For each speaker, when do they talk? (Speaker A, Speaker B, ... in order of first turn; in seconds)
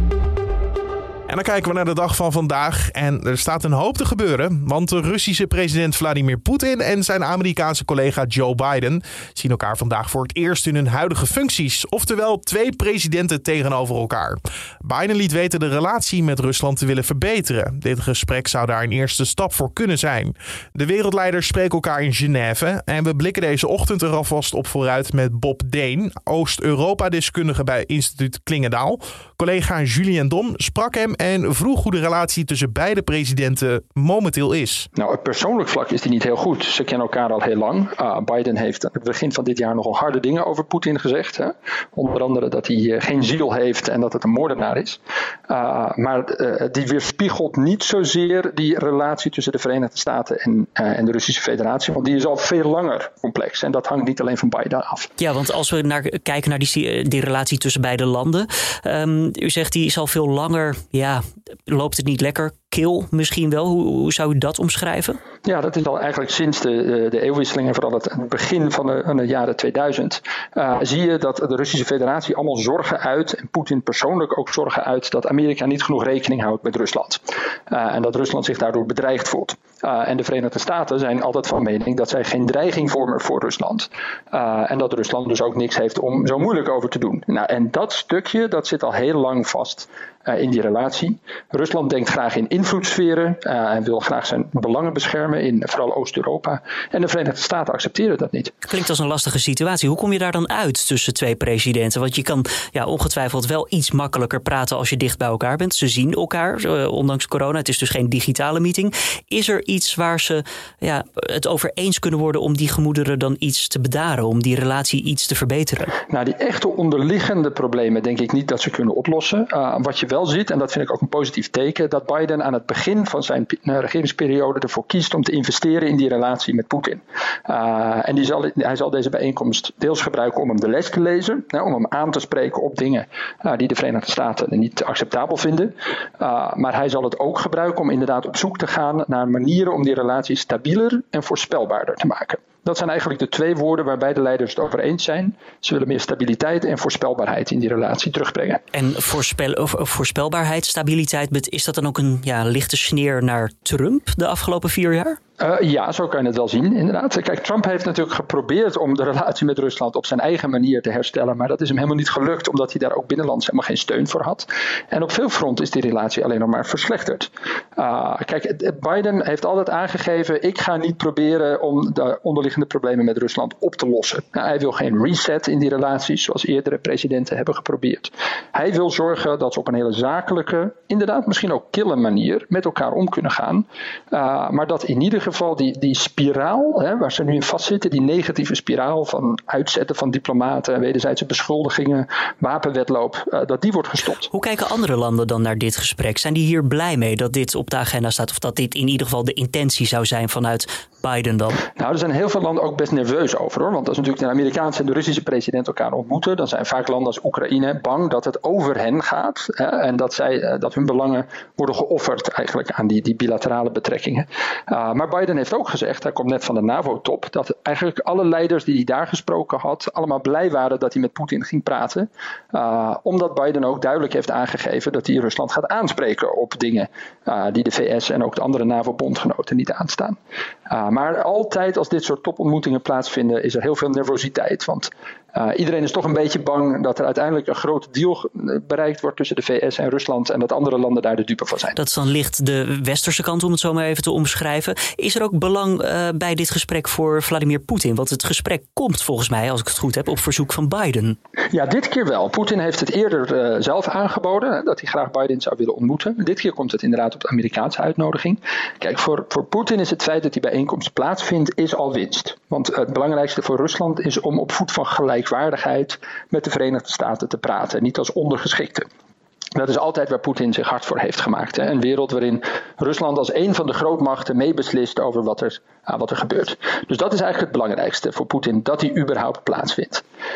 Speaker A: 1.3-34.9
Speaker B: 35.0-55.1, 65.4-98.5, 116.1-148.6, 155.4-194.3, 201.8-230.2, 230.7-241.8, 251.5-268.9, 269.6-280.0
Speaker C: 55.2-65.2, 98.7-115.8, 148.7-155.1, 194.3-201.5, 241.8-251.1